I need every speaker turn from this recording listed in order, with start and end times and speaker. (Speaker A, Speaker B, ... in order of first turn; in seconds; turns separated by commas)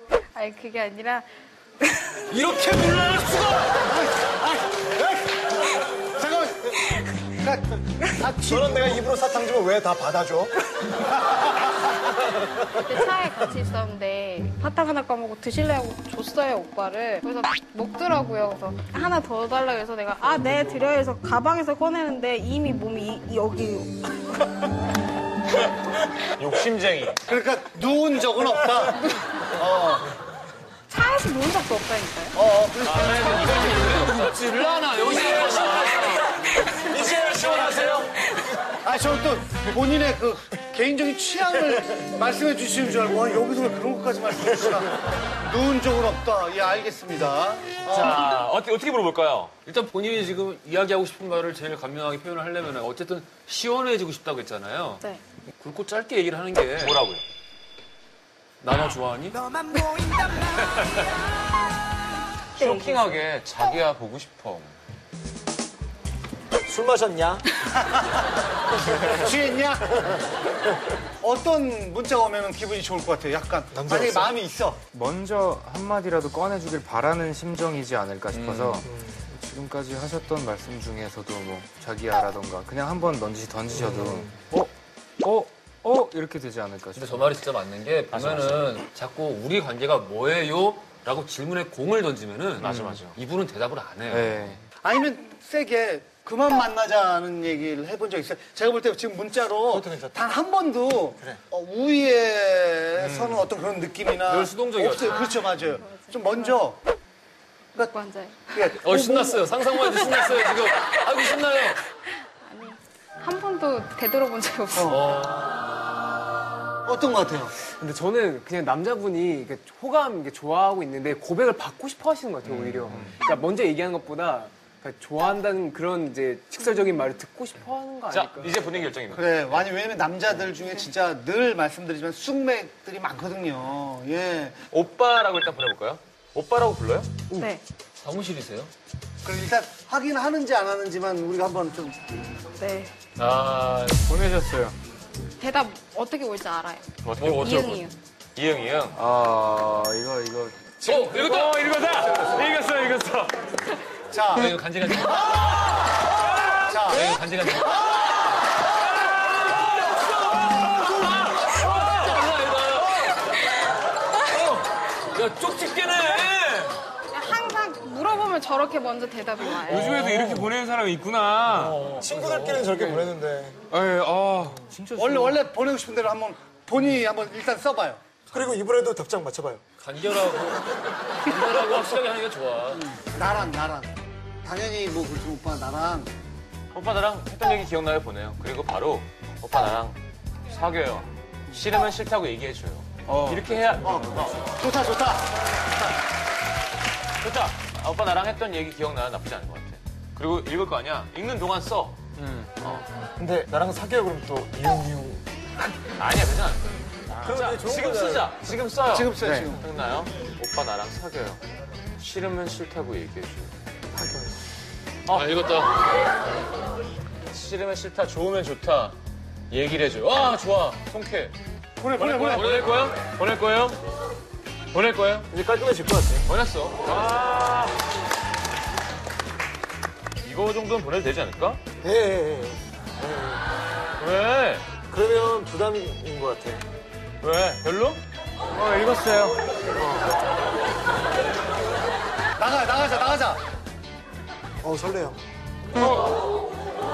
Speaker A: 0.3-1.3, Speaker A: 1.8-2.3, Speaker B: 2.3-3.9, Speaker C: 3.9-6.8, Speaker C: 7.4-9.0, Speaker D: 8.4-10.6, Speaker A: 12.8-24.7, Speaker E: 26.4-27.2, Speaker C: 27.2-30.1, Speaker A: 30.9-32.4, Speaker C: 32.4-33.8, Speaker E: 32.8-34.7, Speaker B: 33.5-36.3, Speaker E: 35.6-36.0, Speaker D: 36.7-38.1, Speaker B: 36.9-38.1, Speaker C: 37.2-37.5, Speaker C: 38.8-48.3, Speaker E: 47.9-49.5, Speaker B: 49.6-55.0, Speaker B: 55.6-57.0, Speaker E: 56.8-57.2, Speaker B: 58.6-59.5, Speaker B: 60.7-61.0, Speaker E: 62.6-64.7, Speaker A: 62.6-63.1, Speaker D: 66.7-67.4, Speaker C: 69.2-70.0, Speaker C: 71.2-74.8, Speaker D: 73.7-74.3, Speaker F: 74.9-87.3, Speaker B: 78.3-78.9, Speaker B: 87.0-94.6, Speaker E: 88.1-88.7, Speaker E: 92.6-93.2, Speaker F: 92.6-93.0, Speaker F: 94.1-94.6, Speaker C: 94.8-106.8, Speaker D: 99.7-100.2, Speaker B: 103.0-103.4, Speaker B: 104.3-105.3, Speaker A: 105.0-106.7, Speaker A: 107.8-108.5, Speaker C: 108.5-109.5, Speaker B: 108.7-111.8, Speaker A: 112.1-115.0, Speaker C: 114.8-115.0, Speaker B: 114.9-115.5, Speaker C: 116.8-117.5, Speaker G: 117.8-128.6, Speaker E: 122.4-123.2, Speaker E: 128.0-129.7, Speaker C: 129.1-134.6, Speaker E: 134.7-137.2, Speaker A: 137.4-137.6, Speaker B: 138.0-138.7, Speaker C: 139.2-142.0, Speaker A: 142.6-142.9, Speaker B: 143.2-144.0, Speaker F: 144.0-144.8, Speaker A: 145.4-147.9, Speaker E: 147.0-147.8, Speaker E: 148.4-149.0, Speaker F: 148.9-153.4, Speaker B: 150.8-152.2, Speaker C: 154.1-154.6, Speaker B: 154.3-155.8, Speaker E: 154.7-155.0, Speaker B: 156.3-157.8, Speaker C: 156.7-157.1, Speaker E: 156.9-157.8, Speaker B: 159.0-163.3, Speaker B: 164.2-166.8, Speaker A: 167.1-170.1, Speaker F: 169.7-172.7, Speaker B: 169.8-170.5, Speaker D: 171.5-173.6, Speaker B: 172.8-173.1, Speaker F: 173.7-175.4, Speaker C: 175.0-178.0, Speaker D: 178.3-179.6, Speaker B: 179.8-182.9, Speaker C: 182.7-183.9, Speaker C: 184.4-186.1, Speaker E: 186.7-190.0, Speaker E: 190.5-194.4, Speaker C: 193.8-195.3, Speaker E: 197.2-202.1, Speaker E: 202.6-202.8, Speaker D: 203.2-205.2, Speaker E: 206.0-211.4, Speaker D: 207.2-208.3, Speaker C: 208.9-209.6, Speaker F: 209.2-209.6, Speaker E: 212.0-213.5, Speaker E: 215.1-215.5, Speaker B: 215.1-215.8, Speaker E: 217.3-219.0, Speaker E: 219.5-221.3, Speaker C: 221.8-222.8, Speaker E: 221.9-223.8, Speaker E: 224.7-225.3, Speaker D: 225.3-226.2, Speaker E: 226.2-227.4, Speaker D: 227.1-227.3, Speaker E: 230.2-231.6, Speaker D: 231.8-233.4, Speaker E: 234.0-234.8, Speaker D: 234.9-236.6, Speaker E: 237.2-238.0, Speaker F: 238.6-239.4, Speaker D: 239.8-240.1, Speaker C: 242.4-243.4, Speaker D: 244.6-245.2